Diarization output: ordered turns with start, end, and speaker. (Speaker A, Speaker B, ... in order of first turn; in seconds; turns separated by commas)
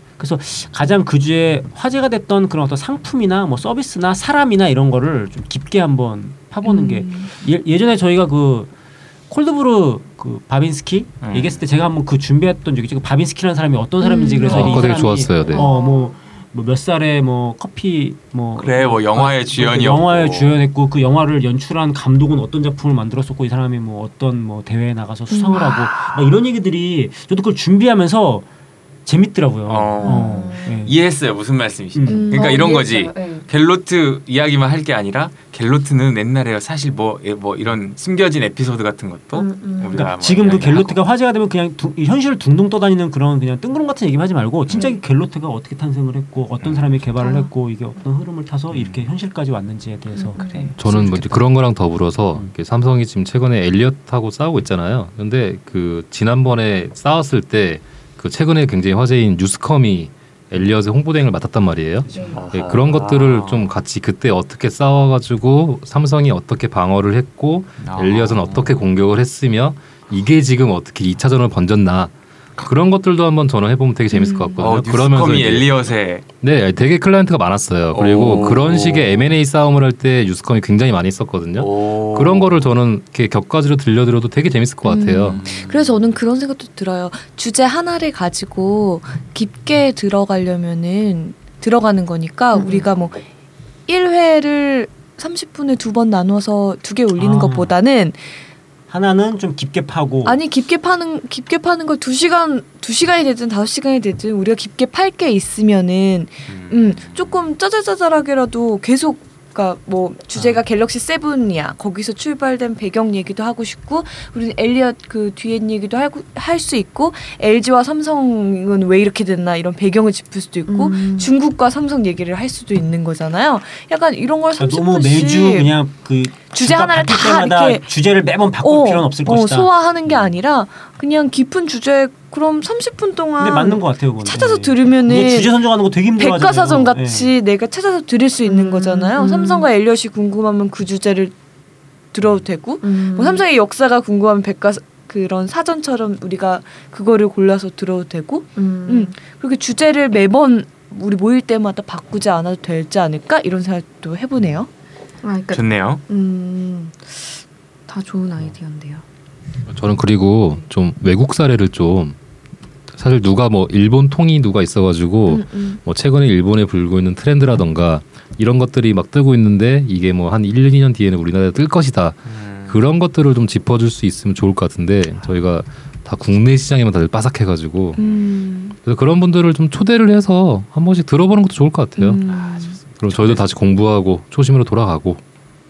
Speaker A: 0.2-8.7, Speaker B: 6.6-7.3, Speaker A: 9.3-28.5, Speaker C: 11.2-11.6, Speaker B: 14.0-15.2, Speaker D: 14.4-15.7, Speaker E: 15.4-16.1, Speaker C: 18.6-20.6, Speaker B: 25.3-25.7, Speaker C: 25.6-26.3, Speaker A: 29.1-31.0, Speaker C: 29.7-41.0, Speaker E: 30.0-30.9, Speaker A: 31.9-32.3, Speaker B: 32.1-32.7, Speaker E: 32.3-33.5, Speaker E: 39.4-40.1, Speaker A: 39.9-51.4, Speaker B: 47.2-47.5, Speaker C: 48.7-49.0, Speaker E: 50.4-50.7, Speaker C: 50.4-50.7, Speaker D: 50.8-85.5, Speaker E: 62.1-62.4, Speaker A: 62.1-62.4, Speaker C: 62.3-63.8, Speaker C: 67.8-68.8, Speaker B: 74.1-74.6, Speaker C: 74.6-76.3, Speaker C: 77.9-79.3, Speaker C: 81.6-82.7, Speaker B: 84.8-93.2, Speaker C: 85.3-86.0, Speaker E: 92.5-92.9, Speaker B: 93.9-98.2, Speaker A: 97.2-97.8, Speaker A: 98.9-100.4, Speaker B: 100.2-125.7, Speaker C: 106.5-107.5, Speaker E: 120.7-121.3, Speaker A: 124.6-129.7, Speaker B: 126.5-127.9, Speaker B: 128.6-135.5, Speaker A: 133.4-137.3, Speaker B: 136.2-141.3, Speaker E: 138.5-139.7, Speaker B: 142.1-154.7, Speaker E: 142.8-143.4, Speaker E: 148.6-149.1, Speaker E: 155.2-159.0, Speaker C: 155.5-156.0, Speaker D: 159.7-162.2, Speaker D: 162.9-178.0, Speaker B: 165.3-165.8, Speaker C: 172.3-172.8, Speaker B: 178.0-178.8, Speaker C: 178.0-178.2, Speaker D: 178.8-182.2, Speaker B: 182.0-182.8, Speaker C: 182.2-183.5, Speaker D: 183.0-185.2